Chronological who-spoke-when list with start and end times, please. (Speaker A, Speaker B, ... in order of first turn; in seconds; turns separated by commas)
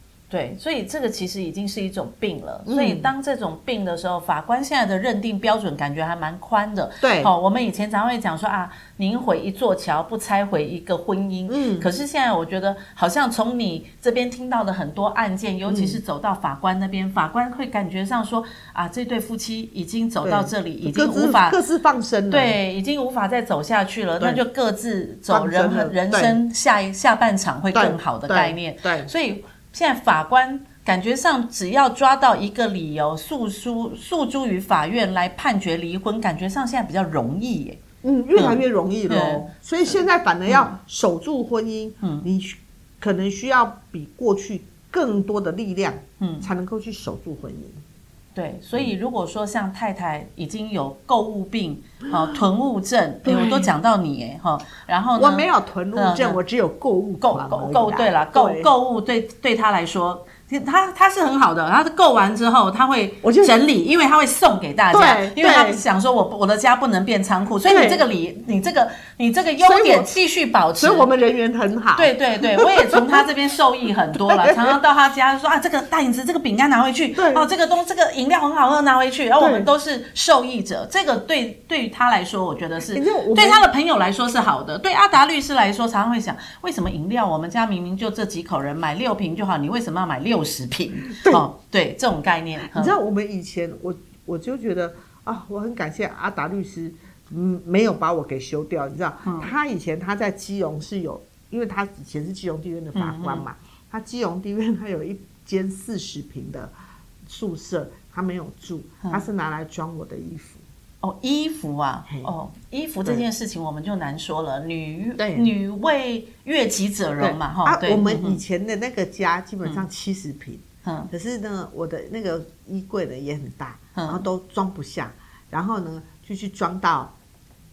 Speaker A: 0.3-21.6, Speaker B: 2.7-3.1, Speaker B: 7.0-7.3, Speaker B: 11.5-11.9, Speaker B: 15.7-16.0, Speaker B: 20.2-22.6, Speaker A: 22.3-37.8, Speaker B: 25.3-26.4, Speaker B: 27.7-29.1, Speaker B: 38.0-47.8, Speaker A: 38.4-40.0, Speaker A: 40.5-40.8, Speaker A: 42.0-42.3, Speaker A: 46.2-46.5, Speaker A: 48.4-56.4, Speaker B: 53.2-53.7, Speaker B: 55.2-58.7, Speaker A: 57.2-71.1, Speaker B: 63.2-63.6, Speaker B: 64.9-65.8, Speaker B: 67.6-68.0, Speaker B: 69.6-70.2, Speaker B: 70.8-73.3, Speaker A: 72.0-93.0, Speaker B: 74.1-74.8, Speaker B: 77.2-77.5, Speaker B: 79.4-79.7, Speaker B: 82.9-83.7, Speaker B: 91.1-91.5, Speaker B: 92.7-106.7, Speaker A: 99.3-99.5, Speaker A: 103.0-103.5, Speaker B: 107.3-110.6, Speaker A: 111.0-118.4, Speaker B: 115.2-115.5, Speaker B: 117.2-127.1, Speaker A: 120.8-121.1, Speaker A: 124.0-124.2